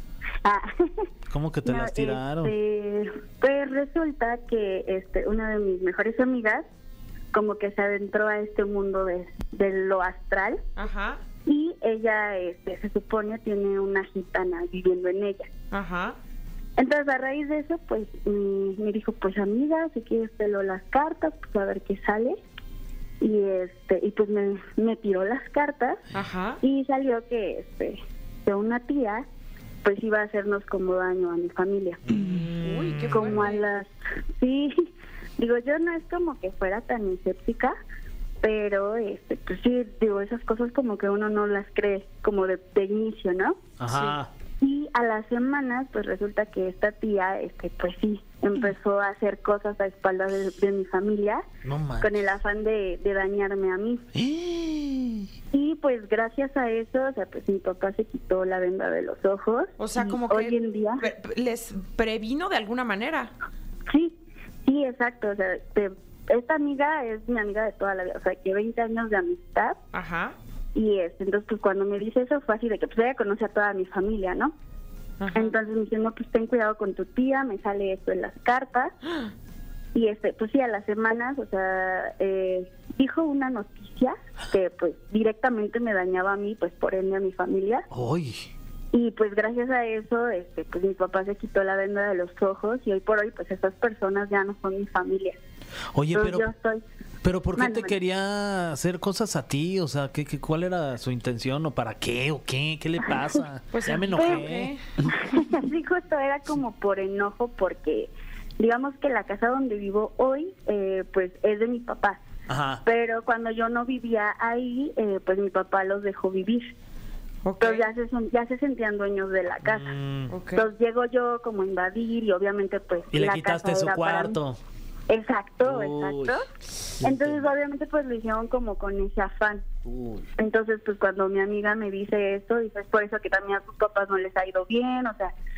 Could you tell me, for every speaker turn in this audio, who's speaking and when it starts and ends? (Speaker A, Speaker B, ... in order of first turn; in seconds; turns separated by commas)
Speaker A: 0.4-1.0, Speaker B: 1.3-2.5, Speaker A: 1.6-6.6, Speaker A: 7.3-10.6, Speaker C: 10.8-11.2, Speaker A: 11.4-15.5, Speaker C: 15.7-16.2, Speaker A: 16.8-22.4, Speaker A: 23.2-26.0, Speaker C: 26.1-26.6, Speaker A: 26.6-29.2, Speaker A: 29.8-32.0, Speaker C: 32.1-33.6, Speaker B: 32.3-33.1, Speaker A: 33.1-34.8, Speaker A: 35.4-37.8, Speaker A: 38.4-43.6, Speaker B: 43.8-44.3, Speaker A: 44.6-51.4, Speaker B: 51.6-52.2, Speaker A: 52.0-54.0, Speaker B: 54.1-55.3, Speaker A: 55.5-61.0, Speaker C: 59.8-63.3, Speaker A: 63.9-69.8, Speaker C: 69.9-70.3, Speaker A: 70.7-74.5, Speaker C: 75.2-75.6, Speaker A: 75.3-78.9, Speaker A: 79.9-87.8, Speaker B: 87.9-88.5, Speaker A: 88.9-95.4, Speaker B: 95.9-96.5, Speaker A: 96.1-96.8, Speaker B: 97.2-104.7, Speaker A: 97.5-97.9, Speaker C: 103.7-104.8, Speaker A: 104.2-104.5, Speaker A: 105.0-112.2, Speaker B: 112.5-112.8, Speaker A: 112.8-116.7, Speaker C: 117.4-117.9, Speaker A: 117.6-119.9, Speaker B: 119.6-120.3, Speaker C: 120.3-120.7, Speaker A: 120.5-124.4, Speaker B: 123.1-124.6, Speaker A: 125.1-126.4, Speaker B: 125.6-126.4, Speaker B: 127.0-127.5, Speaker A: 127.0-129.7, Speaker B: 129.8-130.2, Speaker A: 130.4-135.3